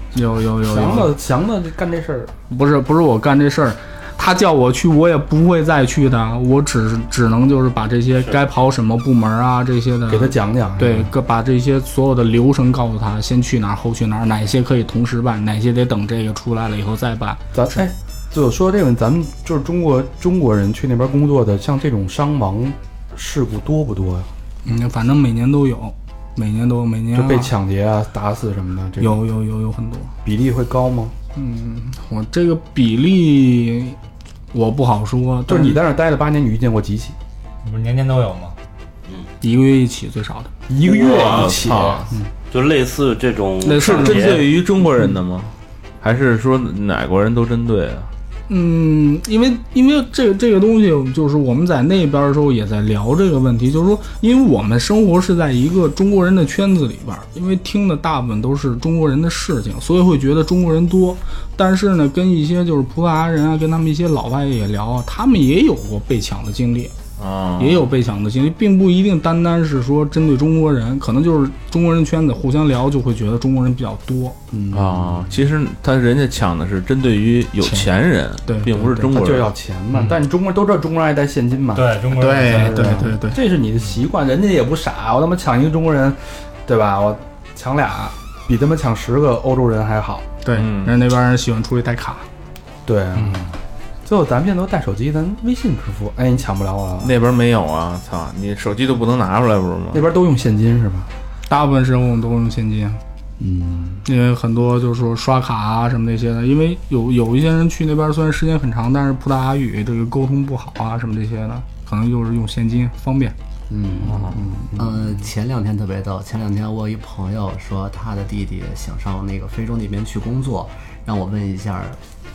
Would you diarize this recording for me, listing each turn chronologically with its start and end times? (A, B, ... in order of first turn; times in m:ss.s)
0:00.1-0:01.2 A
0:00.6-0:02.3 B
0:02.5-0:17.8 A
0:10.1-0:11.1 B
0:17.5-0:24.3 B
0:24.6-0:27.5 A
0:27.1-0:29.2 B
0:29.0-0:30.1 A
0:30.2-0:31.1 B
0:31.4-0:34.0 A
0:34.5-0:35.8 A
0:35.5-0:37.2 B
0:37.6-0:38.6 C
0:39.4-0:40.5 A
0:40.7-0:42.0 B
0:40.8-0:41.9 D
0:41.1-0:42.0 E
0:42.5-0:44.6 D
0:43.6-0:44.4 A
0:43.7-0:48.1 E
0:48.5-1:06.9 A
1:07.2-1:07.9 E
1:07.6-1:14.4 A
1:14.5-1:15.4 B
1:14.7-1:19.5 E
1:17.6-1:17.9 A
1:18.4-1:19.1 A
1:19.1-1:30.3 B
1:21.7-1:23.0 C
1:22.2-1:23.4 A
1:30.4-1:32.3 A
1:30.5-1:31.0 E
1:32.8-1:33.5 B
1:34.1-1:37.2 B
1:37.0-1:40.1 E
1:39.9-1:41.1 B
1:41.5-1:43.0 A
1:43.4-1:44.0 B
1:44.0-1:53.4 A
1:53.7-1:55.1 B
1:54.0-1:54.4 E
1:54.7-2:02.0 F